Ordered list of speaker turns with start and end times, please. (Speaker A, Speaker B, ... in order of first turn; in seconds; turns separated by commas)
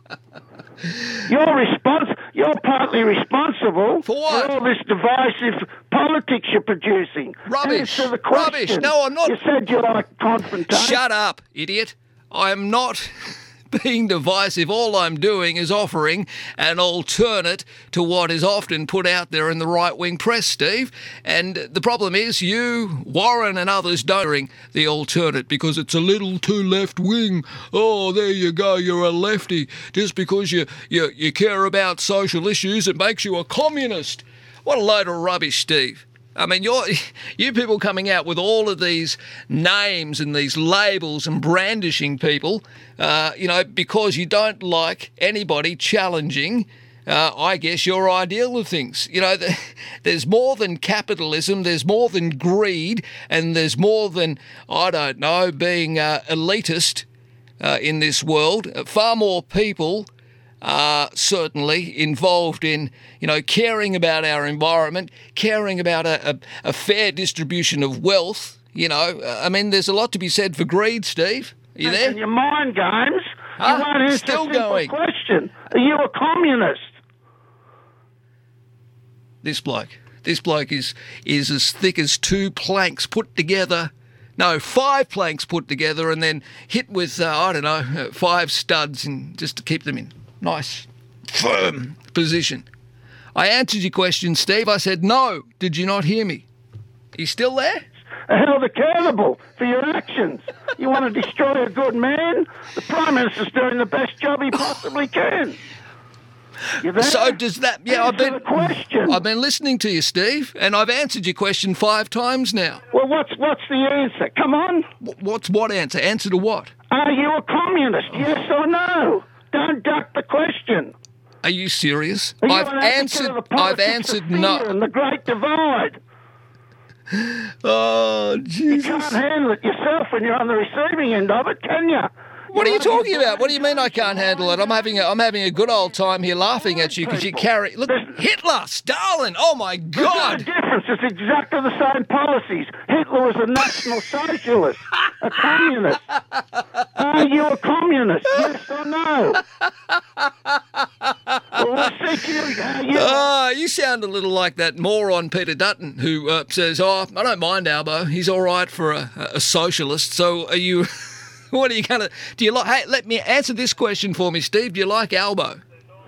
Speaker A: 1.2-11.0, Speaker B: 4.0-4.5, Speaker B: 7.5-9.4, Speaker B: 10.7-57.0, Speaker B: 57.6-60.1, Speaker B: 60.6-72.2, Speaker A: 71.8-76.9, Speaker B: 73.6-74.9, Speaker B: 79.4-92.7, Speaker B: 93.3-96.5, Speaker B: 97.2-97.8, Speaker A: 98.3-105.6, Speaker A: 106.8-109.2, Speaker B: 107.0-112.8, Speaker A: 112.9-114.9, Speaker B: 115.0-116.7, Speaker A: 116.9-120.9, Speaker B: 121.4-124.7, Speaker A: 122.4-126.0, Speaker B: 127.1-129.2, Speaker A: 128.7-133.5, Speaker B: 132.5-140.5, Speaker A: 136.9-138.2, Speaker A: 139.9-146.0, Speaker A: 146.9-149.4, Speaker B: 149.6-151.4, Speaker A: 151.5-153.3, Speaker B: 152.9-165.6